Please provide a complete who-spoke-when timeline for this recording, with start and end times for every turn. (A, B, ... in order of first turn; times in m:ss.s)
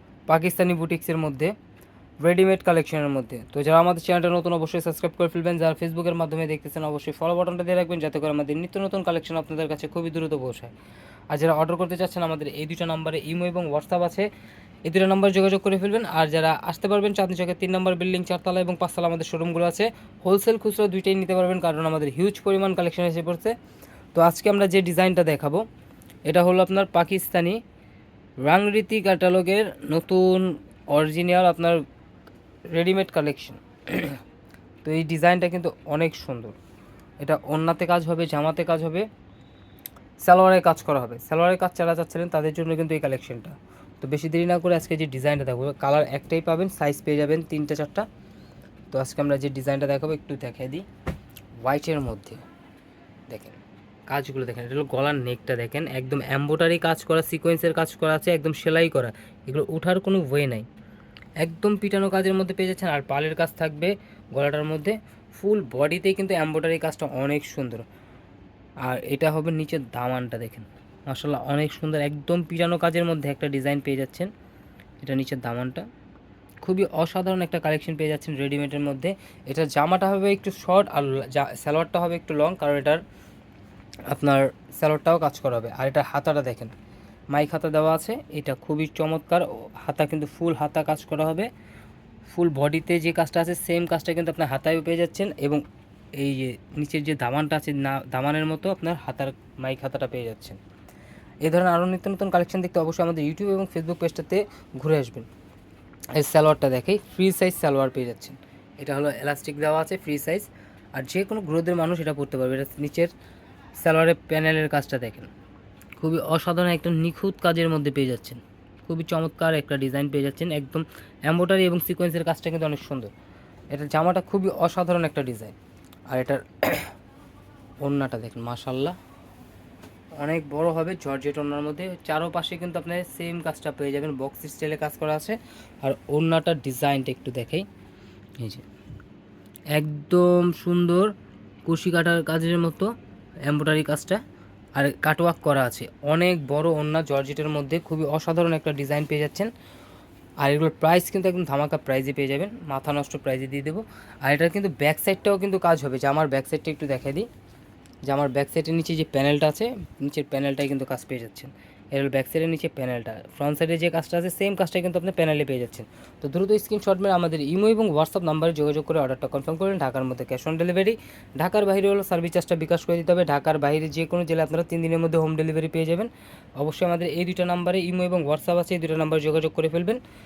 0:00.3-0:01.5 A
0:02.2-0:10.7 A
0:11.3-0:14.3 A
0:14.8-0:23.6 A
0:24.2-0:25.6 A
0:26.3-0:27.6 A
0:28.4-0:31.8 A
0:32.7-0:34.2 A
0:34.8-0:36.6 A
0:37.2-0:39.0 A
0:40.2-0:48.1 A
0:48.9-0:50.8 A
0:51.6-0:52.4 A
0:53.3-0:53.6 A
0:54.1-1:00.7 A
1:01.4-1:07.8 A
1:08.8-1:14.3 A
1:15.0-1:15.8 A
1:16.6-1:23.0 A
1:24.1-1:26.7 A
1:27.3-1:31.5 A
1:32.3-1:35.6 A
1:36.2-1:40.6 A
1:41.4-1:45.3 A
1:46.1-1:53.1 A
1:53.8-1:55.3 A
1:56.0-2:03.1 A
2:03.7-2:05.6 A
2:06.1-2:06.9 A
2:07.8-2:09.0 A
2:10.2-2:17.7 A
2:19.7-2:21.1 A
2:21.7-2:22.9 A
2:23.5-2:24.2 A
2:24.8-2:29.5 A
2:30.4-2:37.3 A
2:38.1-3:00.0 A